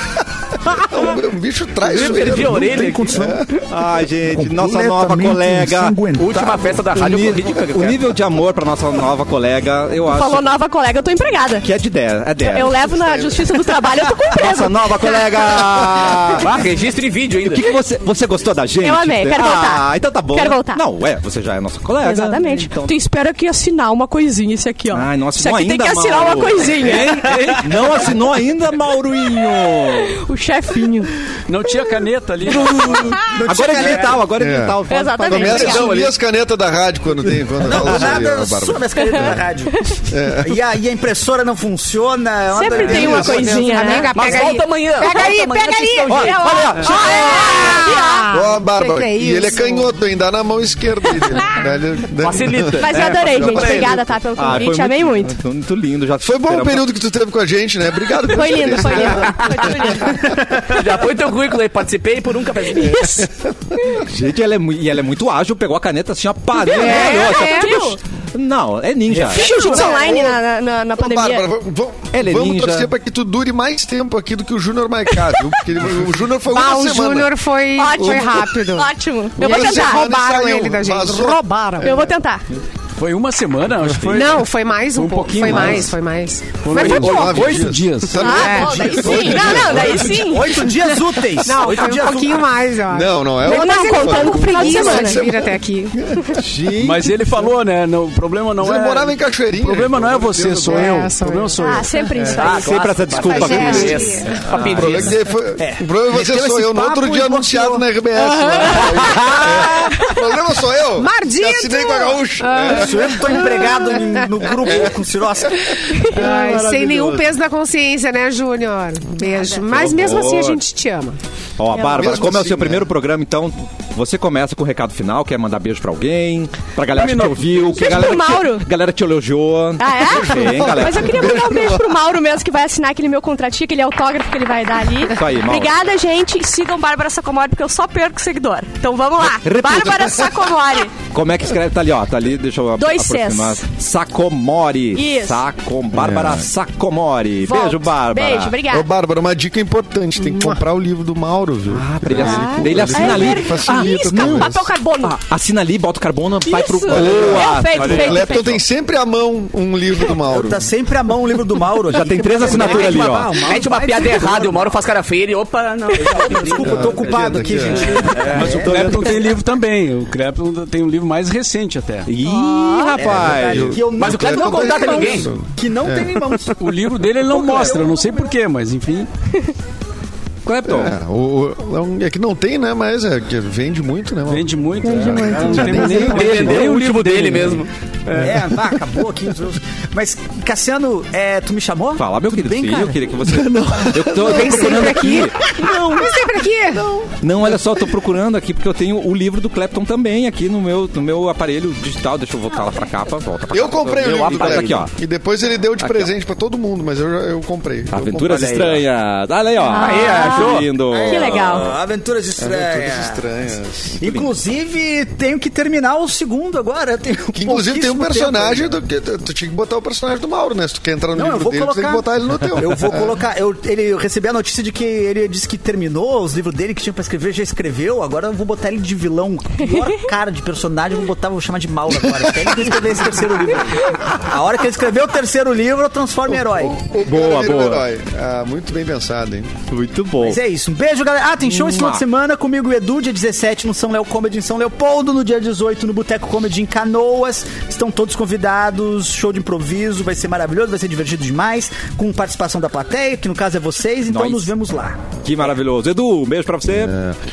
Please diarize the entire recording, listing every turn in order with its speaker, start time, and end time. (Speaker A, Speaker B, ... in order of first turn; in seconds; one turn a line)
Speaker A: 0.8-3.5
Speaker B: 1.8-3.5
Speaker C: 2.1-3.5
Speaker D: 3.7-6.0
Speaker C: 4.3-6.6
Speaker B: 6.2-8.1
Speaker D: 7.0-10.5
Speaker E: 10.1-11.7
Speaker D: 11.6-13.3
Speaker E: 12.4-15.8
Speaker D: 14.3-16.6
Speaker B: 16.3-17.6
Speaker D: 17.4-23.0
Speaker E: 18.8-20.8
Speaker E: 22.0-27.4
Speaker D: 24.9-30.2
Speaker E: 30.1-31.1
Speaker F: 31.5-33.2
Speaker E: 32.5-33.2
Speaker G: 33.3-34.3
Speaker D: 33.4-35.9
Speaker A: 34.4-39.4
Speaker E: 34.9-35.9
Speaker B: 35.6-36.1
Speaker G: 37.6-39.8
Speaker E: 39.0-40.0
Speaker A: 40.1-40.6
Speaker G: 40.4-43.8
Speaker E: 42.5-44.5
Speaker A: 42.7-43.7
Speaker H: 42.8-50.0
Speaker B: 44.1-46.8
Speaker D: 46.1-47.7
Speaker E: 46.2-48.3
Speaker A: 48.3-54.2
Speaker B: 52.2-54.0
Speaker E: 52.8-55.4
Speaker D: 54.4-56.9
Speaker A: 56.2-60.4
Speaker E: 58.2-60.3
Speaker H: 58.8-59.4
Speaker B: 59.3-60.0
Speaker B: 60.5-63.2
Speaker A: 62.8-64.0
Speaker D: 64.0-69.8
Speaker E: 66.6-68.0
Speaker H: 66.7-67.8
Speaker E: 69.2-71.5
Speaker A: 69.3-70.4
Speaker A: 71.0-77.3
Speaker D: 72.1-72.9
Speaker H: 76.5-81.9
Speaker E: 77.8-80.1
Speaker A: 78.0-78.4
Speaker A: 79.4-82.2
Speaker E: 81.8-82.5
Speaker F: 83.0-86.0
Speaker H: 84.0-87.6
Speaker A: 85.4-85.8
Speaker F: 86.6-88.3
Speaker A: 86.7-90.3
Speaker E: 88.2-90.8
Speaker H: 88.2-89.2
Speaker G: 88.7-92.5
Speaker H: 90.6-96.0
Speaker A: 92.9-96.4
Speaker E: 93.4-95.3
Speaker D: 96.4-97.1
Speaker F: 96.8-101.9
Speaker A: 98.6-101.1
Speaker H: 100.7-101.8
Speaker E: 101.6-103.0
Speaker A: 102.2-102.5
Speaker D: 102.4-105.1
Speaker B: 102.4-105.2
Speaker H: 103.2-104.5
Speaker A: 104.6-115.6
Speaker G: 105.6-110.0
Speaker H: 108.3-109.2
Speaker H: 111.0-114.9
Speaker G: 112.7-115.7
Speaker H: 115.7-121.2
Speaker E: 116.1-116.3
Speaker D: 116.1-117.3
Speaker A: 119.6-120.6
Speaker D: 119.7-120.3
Speaker D: 121.6-131.4
Speaker E: 121.7-122.2
Speaker A: 121.9-122.9
Speaker E: 127.1-128.7
Speaker E: 129.8-140.9
Speaker A: 130.1-132.0
Speaker D: 135.1-135.8
Speaker D: 139.4-140.3
Speaker D: 141.1-148.6
Speaker E: 142.8-143.7
Speaker E: 144.9-145.4
Speaker A: 145.9-146.5
Speaker E: 147.4-148.9
Speaker A: 148.7-154.7
Speaker H: 150.3-150.6
Speaker D: 151.7-158.6
Speaker E: 152.1-155.2
Speaker E: 156.4-158.6
Speaker A: 156.9-160.7
Speaker B: 157.8-158.3
Speaker G: 160.1-164.8
Speaker D: 161.8-163.4
Speaker B: 162.3-167.0
Speaker G: 166.0-168.9
Speaker A: 166.5-168.1
Speaker D: 166.8-167.4
Speaker F: 168.0-172.1
Speaker D: 168.4-169.4
Speaker D: 172.1-173.8
Speaker E: 172.2-173.0
Speaker G: 173.0-178.3
Speaker A: 173.1-176.2
Speaker B: 174.0-175.3
Speaker F: 176.6-179.1
Speaker D: 180.4-181.0
Speaker A: 180.7-186.7
Speaker F: 184.3-187.7
Speaker G: 184.9-186.1
Speaker B: 185.9-188.4
Speaker G: 188.2-193.2
Speaker D: 192.0-196.1
Speaker A: 193.2-196.0
Speaker H: 194.2-196.8
Speaker A: 196.8-197.1
Speaker D: 197.2-204.9
Speaker A: 203.5-208.7
Speaker B: 203.8-204.9
Speaker D: 205.8-206.2
Speaker D: 207.9-211.7
Speaker E: 209.7-211.7
Speaker B: 209.7-210.7
Speaker G: 210.9-213.3
Speaker A: 212.4-214.0
Speaker G: 214.0-218.8
Speaker D: 214.0-214.3
Speaker A: 217.3-223.2
Speaker G: 221.1-236.8
Speaker E: 229.6-230.0
Speaker A: 236.3-239.6
Speaker D: 237.0-237.9
Speaker D: 239.7-240.4
Speaker G: 240.2-255.1
Speaker D: 241.4-242.0
Speaker D: 254.1-254.5
Speaker D: 255.2-256.9
Speaker A: 256.7-257.2